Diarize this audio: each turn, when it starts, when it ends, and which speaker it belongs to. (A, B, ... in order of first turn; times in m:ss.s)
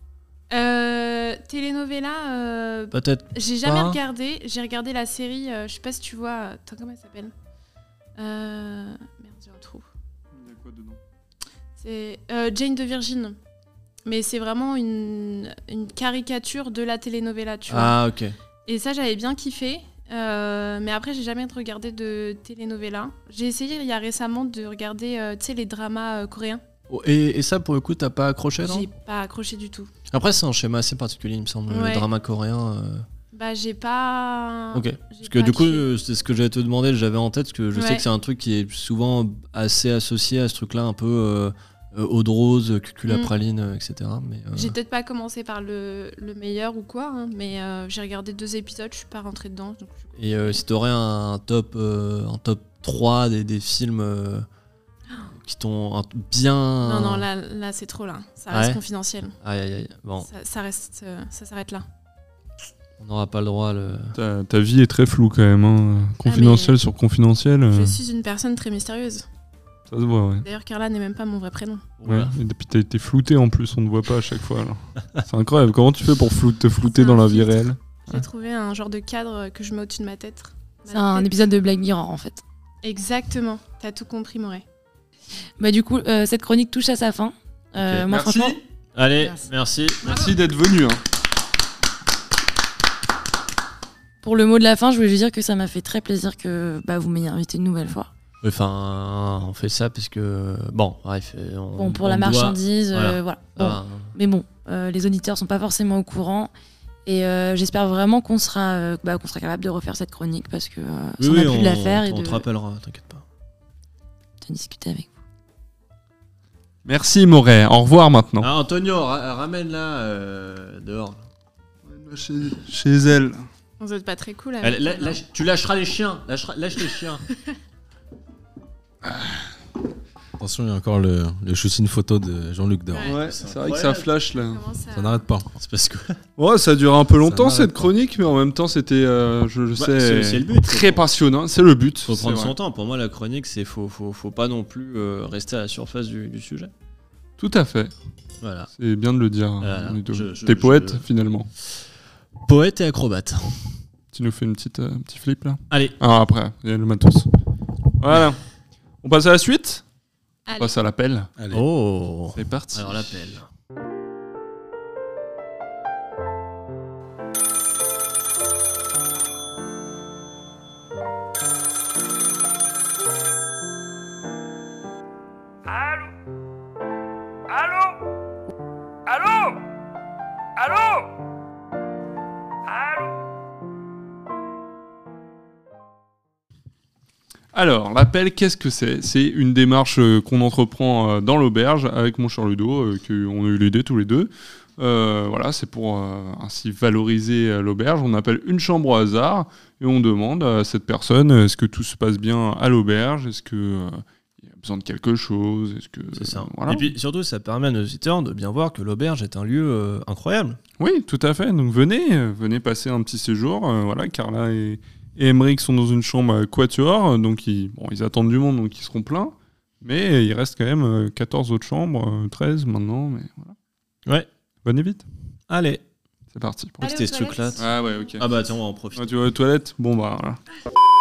0:00.5-0:07.3 A
0:02.9-0:04.0 B
0:08.2-0:09.8 A
0:10.3-0:11.0 C
0:11.8-0:13.4 A
0:14.0-0:18.0 A
0:17.7-0:18.3 B
0:18.6-0:26.6 A
0:26.9-0:28.9 B
0:28.6-0:29.9 A
0:30.1-0:33.0 B
0:31.7-0:32.1 A
0:33.3-0:35.9 A
0:34.7-0:44.7 B
0:37.7-0:38.0 A
0:44.5-0:50.6 A
0:50.2-0:54.5 B
0:55.3-0:57.2 B
0:56.8-0:59.3 A
0:58.5-0:58.8 B
0:59.4-1:00.3 B
1:00.2-1:01.8 A
1:03.0-1:04.2 B
1:04.2-1:08.0 C
1:06.2-1:06.8 A
1:07.7-1:09.2 A
1:09.9-1:10.4 C
1:10.4-1:11.8 A
1:12.0-1:12.3 B
1:12.0-1:18.2 C
1:16.9-1:21.4 A
1:20.9-1:22.4 D
1:22.8-1:24.6 A
1:25.6-1:28.6 D
1:28.0-1:28.6 C
1:29.0-1:30.0 B
1:30.0-1:31.0 C
1:30.0-1:30.3 A
1:34.2-1:38.1 D
1:38.4-1:44.1 B
1:41.8-1:46.5 D
1:47.0-1:52.4 D
1:51.2-1:53.2 B
1:54.4-1:55.1 D
1:56.8-1:58.5 C
1:58.4-2:01.2 B
2:01.9-2:03.4 C
2:03.8-2:05.2 A
2:04.6-2:07.2 B
2:09.1-2:09.4 C
2:10.4-2:13.2 E
2:12.9-2:13.2 A
2:13.1-2:14.1 B
2:13.1-2:14.6 C
2:14.4-2:15.2 A
2:14.9-2:15.5 E
2:15.5-2:16.2 B
2:16.4-2:22.5 C
2:17.2-2:17.8 E
2:19.8-2:21.0 B
2:22.0-2:26.7 B
2:27.4-2:27.9 C
2:28.4-2:28.7 B
2:28.8-2:31.5 C
2:29.6-2:31.0 B
2:32.4-2:33.5 B
2:34.1-2:37.3 C
2:35.7-2:36.0 B
2:38.0-2:38.4 C
2:39.0-2:39.8 C
2:40.5-2:40.7 A
2:40.6-2:41.3 C
2:41.4-2:41.6 E
2:41.5-2:43.4 B
2:42.3-2:43.1 C
3:07.5-3:26.9 C
3:26.1-3:30.6 B
3:30.8-3:43.5 C
3:44.6-3:45.0 C
3:45.5-3:45.8 B
3:46.3-3:46.9 C
3:46.8-3:47.6 B
3:46.8-3:47.9 A
3:47.6-3:48.2 C
3:48.2-3:49.1 B
3:48.9-3:50.4 C